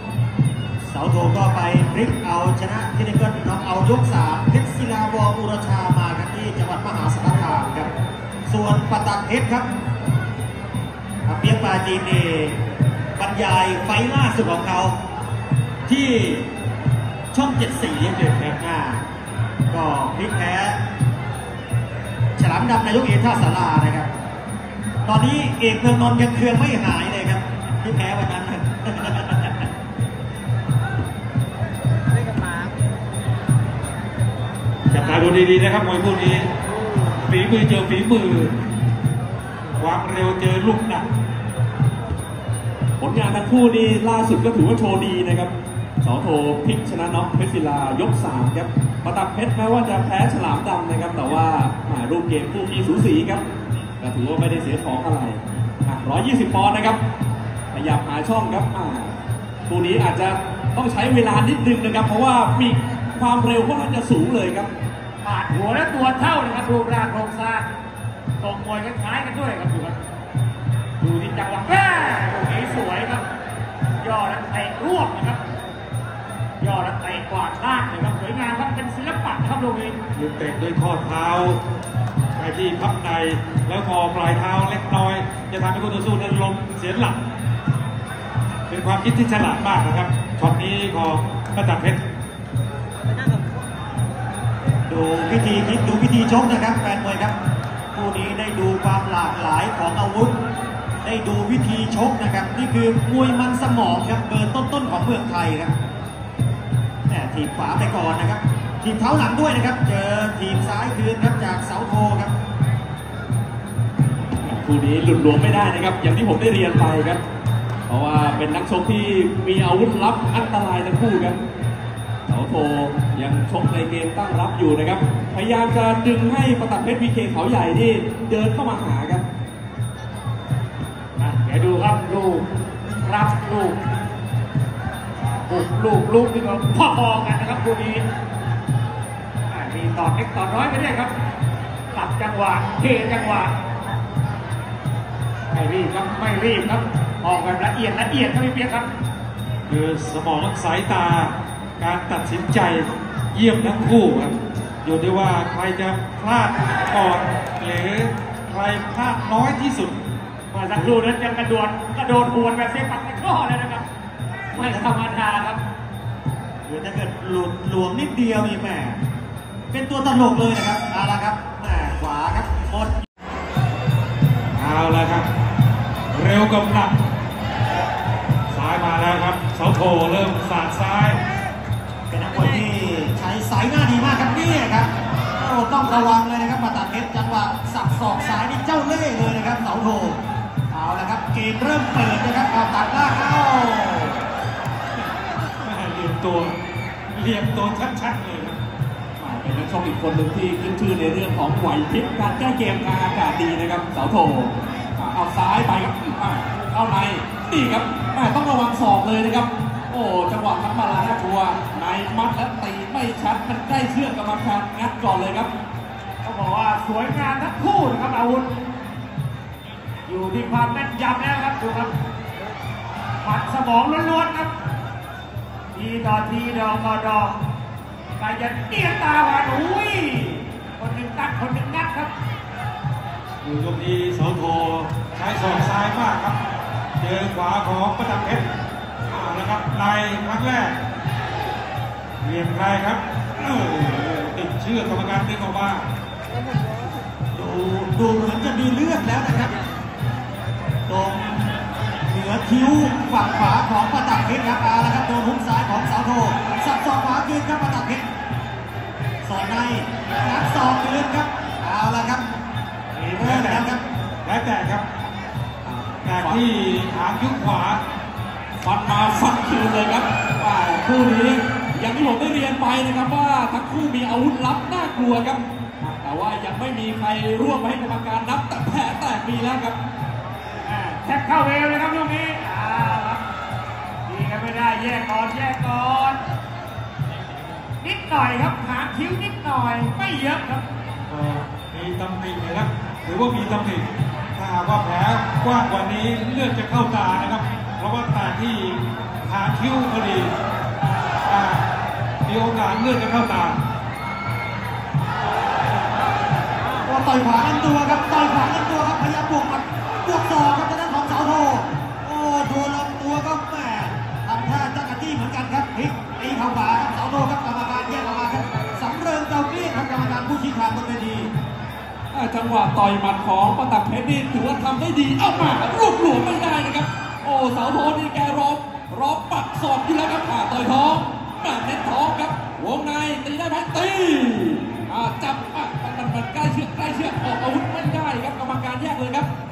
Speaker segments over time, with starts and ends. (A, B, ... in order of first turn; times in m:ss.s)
0:00.8-0:07.9 A
0:08.5-0:09.7 A
0:11.3-0:12.6 A
0:13.2-0:15.0 A
0:15.9-0:16.5 A
0:17.3-0:19.1 A
0:18.2-0:18.6 B
0:19.7-0:20.8 A
0:22.4-0:24.1 A
0:25.0-0:29.7 A
0:34.9-0:36.5 B
0:37.2-0:38.5 B
0:39.7-0:41.1 B
0:43.0-0:53.4 C
0:54.0-0:57.0 C
0:57.7-1:04.7 C
1:05.2-1:07.7 D
1:08.4-1:10.0 D
1:11.0-1:13.2 D
1:14.0-1:15.4 D
1:16.6-1:20.0 D
1:20.1-1:21.6 B
1:22.4-1:27.2 B
1:28.7-1:32.0 B
1:34.9-1:37.4 A
1:37.9-1:40.4 A
1:41.0-1:45.7 A
1:47.1-1:52.3 A
1:54.4-1:57.2 C
1:57.9-2:01.4 C
2:02.3-2:09.2 C
2:11.2-2:12.5 D
2:13.0-2:13.8 D
2:15.5-2:18.0 D
2:19.5-2:21.1 D
2:21.9-2:23.5 D
2:25.5-2:28.9 D
2:29.7-2:40.0 B
2:40.5-2:43.9 D
2:44.5-2:45.6 D
2:44.5-2:44.9 A
2:46.6-2:49.0 A
2:49.7-2:53.0 A
2:54.6-2:55.3 B
2:56.1-2:57.0 B
2:58.5-3:01.2 B
3:02.1-3:10.2 A
3:10.7-3:14.2 A
3:15.6-3:16.6 B
3:17.1-3:18.6 B
3:19.2-3:35.5 C
3:36.2-3:38.5 D
3:40.1-3:41.9 D
3:43.2-3:44.5 D
3:45.7-3:47.4 D
3:48.2-3:52.1 D
3:53.4-3:56.4 B
3:57.0-3:58.5 B
3:59.1-4:00.8 B
4:02.2-4:05.9 B
4:07.3-4:09.6 A
4:10.9-4:11.6 A
4:12.1-4:18.0 A
4:19.2-4:22.3 A
4:23.0-4:23.7 B
4:23.2-4:23.8 A
4:24.2-4:24.8 B
4:25.6-4:26.4 C
4:26.0-4:27.8 B
4:28.6-4:39.8 C
4:40.6-4:43.2 D
4:44.1-4:46.2 D
4:47.8-4:50.7 D
4:51.1-5:00.3 B
5:01.2-5:01.6 B
5:02.2-5:03.6 B
5:06.8-5:21.3 A
5:22.1-5:39.3 C